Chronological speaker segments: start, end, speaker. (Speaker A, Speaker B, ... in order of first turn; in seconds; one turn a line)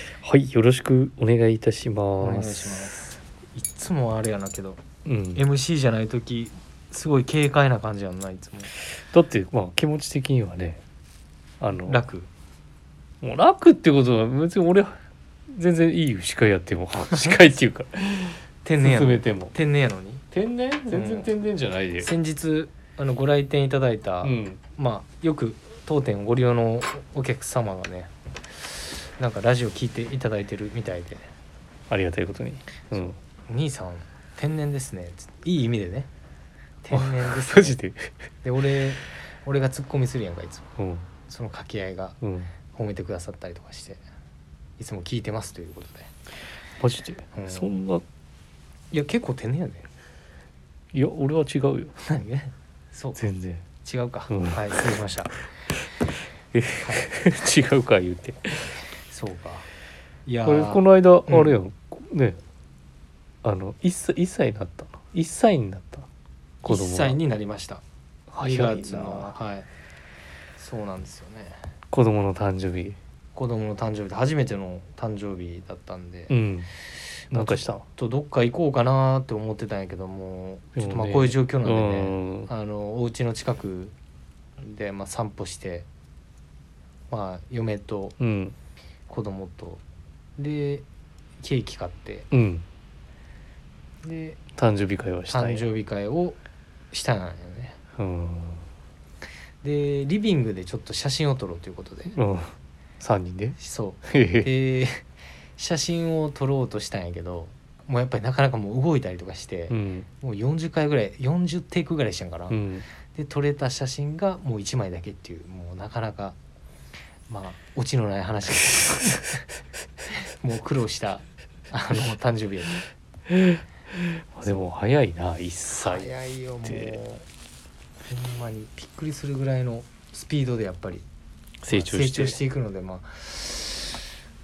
Speaker A: 0.2-3.0
Speaker B: 2.2-4.8
Speaker A: 5.0-5.4
Speaker B: 5.3-8.7
Speaker A: 9.0-10.8
Speaker A: 11.6-12.0
Speaker B: 11.9-12.3
Speaker A: 13.2-15.0
Speaker A: 15.5-19.5
Speaker B: 17.1-17.4
Speaker B: 18.6-20.2
Speaker A: 20.3-22.1
Speaker B: 20.9-21.3
Speaker B: 22.0-28.1
Speaker A: 24.2-24.6
Speaker B: 29.2-31.2
Speaker A: 31.9-33.1
Speaker B: 32.9-36.1
Speaker B: 36.8-37.7
Speaker A: 36.9-38.1
Speaker B: 38.4-40.7
Speaker A: 40.8-41.1
Speaker B: 41.3-42.2
Speaker A: 42.2-42.5
Speaker B: 42.7-44.0
Speaker B: 44.8-46.1
Speaker A: 46.8-48.0
Speaker B: 47.3-47.8
Speaker B: 48.9-49.9
Speaker A: 50.9-51.9
Speaker B: 52.0-53.2
Speaker A: 53.1-53.6
Speaker B: 53.8-55.4
Speaker A: 54.3-54.9
Speaker A: 55.7-58.7
Speaker B: 59.1-59.7
Speaker B: 60.2-61.5
Speaker A: 60.4-62.4
Speaker A: 63.4-66.1
Speaker A: 66.6-67.2
Speaker B: 66.6-67.8
Speaker A: 68.3-69.3
Speaker B: 68.4-69.7
Speaker B: 70.6-71.5
Speaker A: 71.9-73.0
Speaker B: 73.3-76.3
Speaker A: 76.3-76.7
Speaker A: 77.3-77.8
Speaker B: 77.3-83.9
Speaker A: 80.8-82.5
Speaker B: 84.6-85.9
Speaker B: 87.1-88.2
Speaker A: 88.2-88.5
Speaker B: 89.1-89.8
Speaker B: 90.4-90.8
Speaker B: 91.4-92.3
Speaker A: 92.3-92.6
Speaker B: 94.0-94.4
Speaker A: 94.5-95.7
Speaker B: 95.3-96.4
Speaker B: 96.9-97.8
Speaker A: 98.0-98.6
Speaker B: 99.6-102.2
Speaker A: 102.1-104.5
Speaker B: 103.6-105.0
Speaker B: 105.6-112.6
Speaker A: 109.7-110.1
Speaker A: 112.5-112.8
Speaker B: 113.1-116.4
Speaker B: 117.3-119.4
Speaker B: 120.1-122.8
Speaker A: 123.3-126.1
Speaker B: 125.7-127.2
Speaker A: 126.6-127.0
Speaker B: 128.1-131.0
Speaker A: 131.6-132.4
Speaker B: 131.7-133.9